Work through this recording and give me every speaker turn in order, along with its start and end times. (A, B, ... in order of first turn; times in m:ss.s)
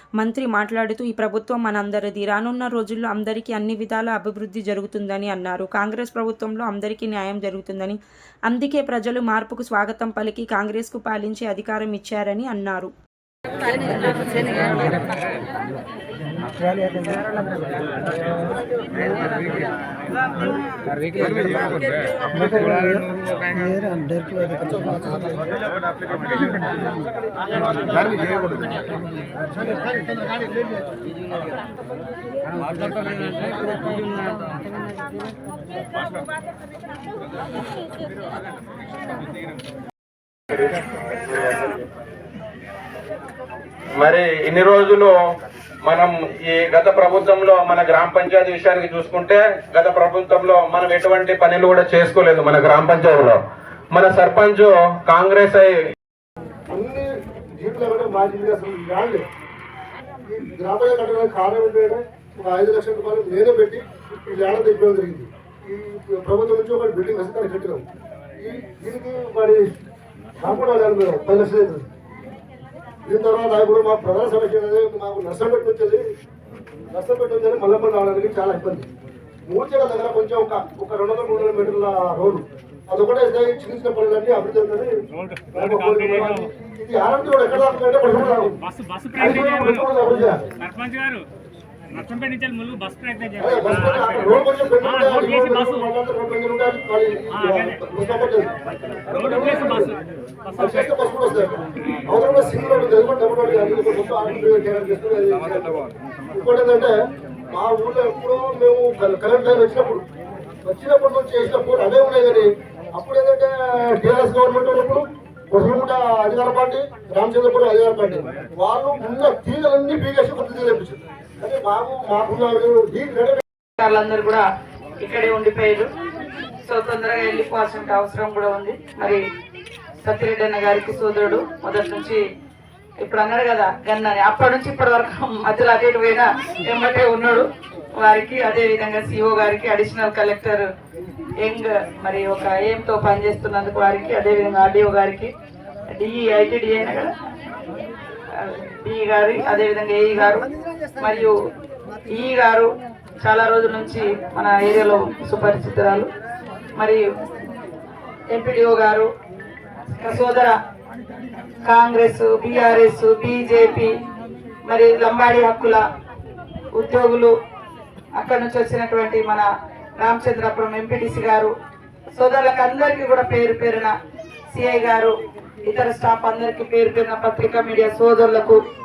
0:00.2-0:12.9 A
0:13.9-0:14.5 A
0:44.0-0:45.1 B
0:45.9-0:53.4 B
0:53.9-0:55.8 B
0:56.7-0:57.1 C
0:57.6-0:59.2 C
1:00.3-1:07.8 C
1:08.4-1:09.8 C
1:10.4-1:11.9 C
1:13.1-1:16.0 C
1:16.9-1:18.9 C
1:19.5-1:24.9 C
1:25.5-1:28.6 C
1:29.0-1:29.5 D
1:29.2-1:30.5 C
1:30.7-1:31.2 D
1:32.0-1:33.5 D
1:33.4-1:38.5 C
1:39.1-1:39.9 C
1:40.6-1:45.8 C
1:46.3-1:46.9 C
1:47.5-1:50.0 C
1:50.6-2:03.4 C
2:03.8-2:04.4 E
2:05.0-2:05.9 E
2:06.6-2:09.2 E
2:10.0-2:12.2 E
2:13.0-2:17.5 E
2:18.0-2:20.7 E
2:21.4-2:25.3 E
2:25.9-2:27.1 E
2:28.3-2:30.5 E
2:31.0-2:31.3 E
2:32.1-2:36.1 E
2:36.8-2:37.0 E
2:38.3-2:39.1 E
2:40.0-2:40.5 E
2:41.6-2:43.9 E
2:44.7-2:45.8 E
2:46.7-2:47.3 E
2:48.2-2:49.5 E
2:50.0-2:51.5 E
2:52.1-2:53.9 E
2:54.5-2:55.1 E
2:55.7-2:58.6 E